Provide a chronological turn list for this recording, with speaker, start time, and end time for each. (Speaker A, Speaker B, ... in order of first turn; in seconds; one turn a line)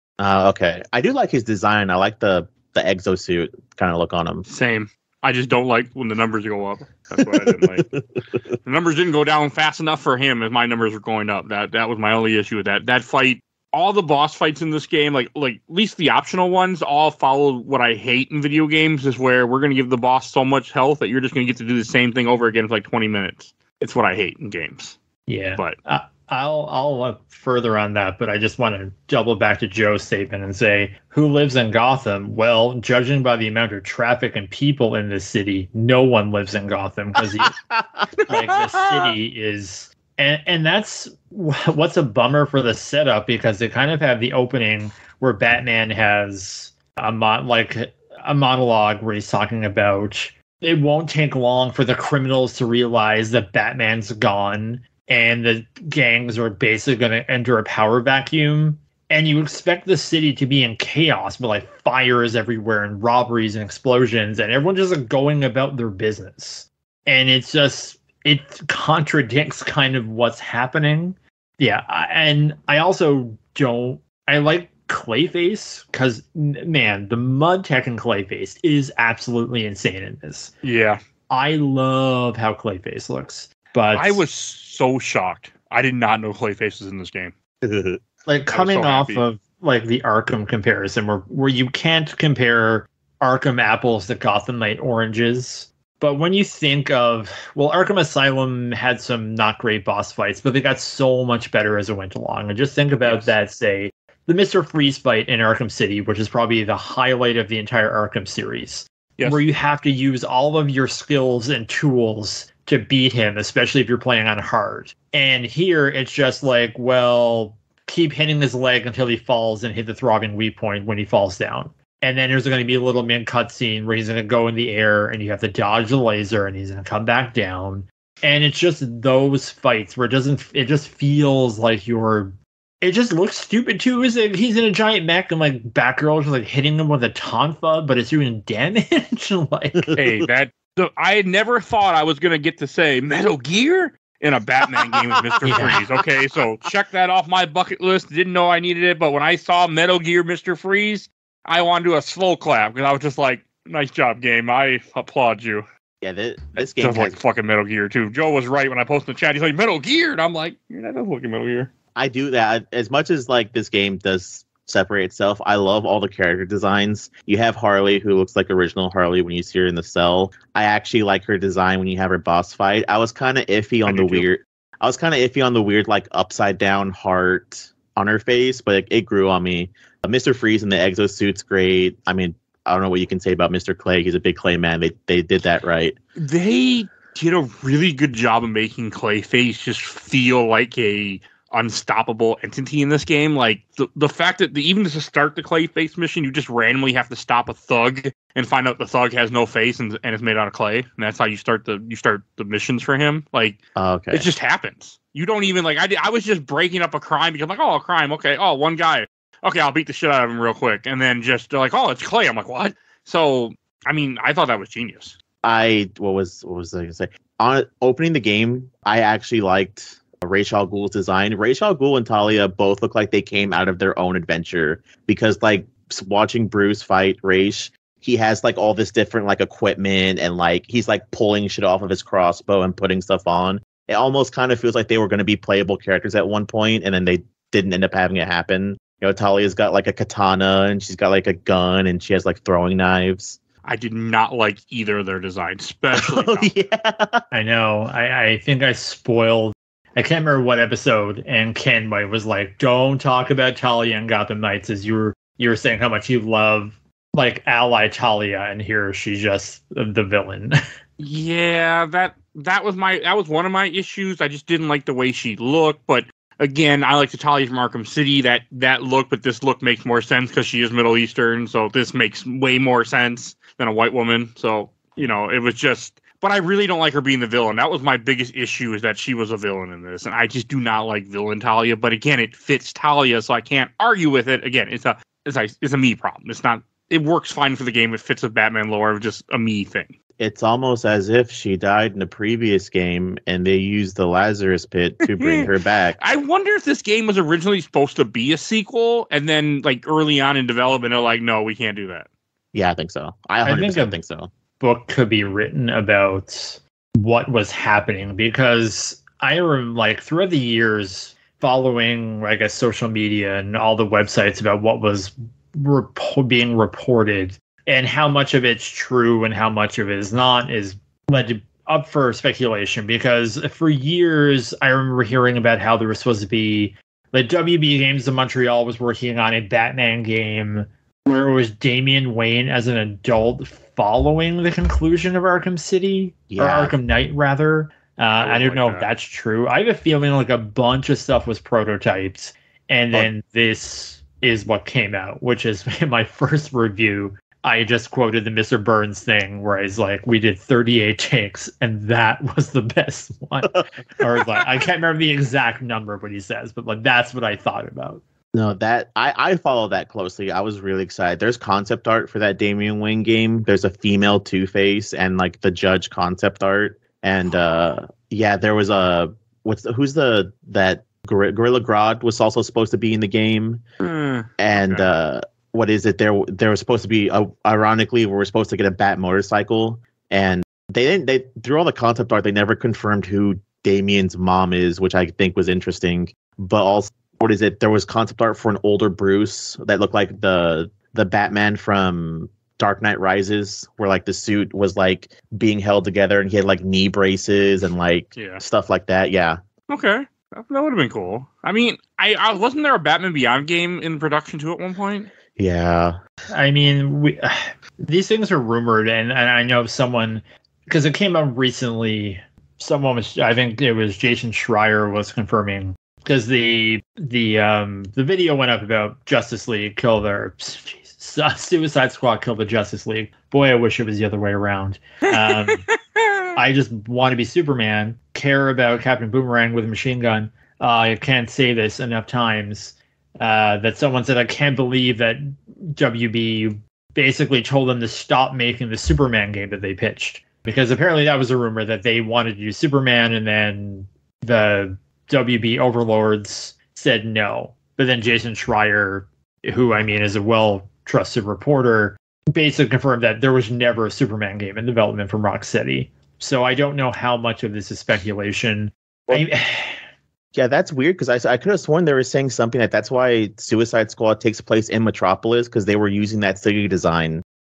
Speaker A: 0.2-4.5
Speaker B: 4.5-7.9
Speaker A: 7.1-8.4
Speaker B: 8.6-25.0
Speaker C: 25.3-37.5
Speaker A: 37.4-39.1
Speaker C: 38.3-80.5
Speaker B: 80.6-81.0
Speaker C: 81.3-84.2
Speaker B: 83.9-87.3
Speaker A: 87.6-88.0
Speaker C: 88.3-140.1
Speaker B: 88.5-89.2
Speaker B: 103.0-103.3
Speaker B: 140.0-155.7
Speaker A: 145.0-146.0
Speaker C: 145.4-145.8
Speaker A: 156.0-157.2
Speaker B: 156.6-161.7
Speaker A: 161.9-186.0
Speaker B: 173.9-174.3
Speaker B: 186.2-203.6
Speaker A: 203.8-204.3
Speaker B: 204.1-215.2
Speaker A: 215.4-243.4
Speaker B: 243.6-246.5
Speaker A: 245.9-247.2
Speaker C: 247.3-260.6
Speaker B: 261.0-289.9
Speaker A: 290.2-296.0
Speaker B: 295.1-295.5
Speaker B: 296.0-302.1
Speaker A: 302.5-304.3
Speaker C: 303.4-304.0
Speaker C: 304.6-358.0
Speaker A: 336.3-336.7
Speaker B: 338.2-338.9
Speaker A: 358.3-373.6
Speaker B: 373.8-374.9
Speaker A: 374.4-399.4
Speaker B: 398.2-398.4
Speaker B: 399.7-405.1
Speaker A: 405.4-406.0
Speaker C: 406.3-425.6
Speaker B: 425.1-426.2
Speaker C: 426.4-459.8
Speaker A: 460.3-467.2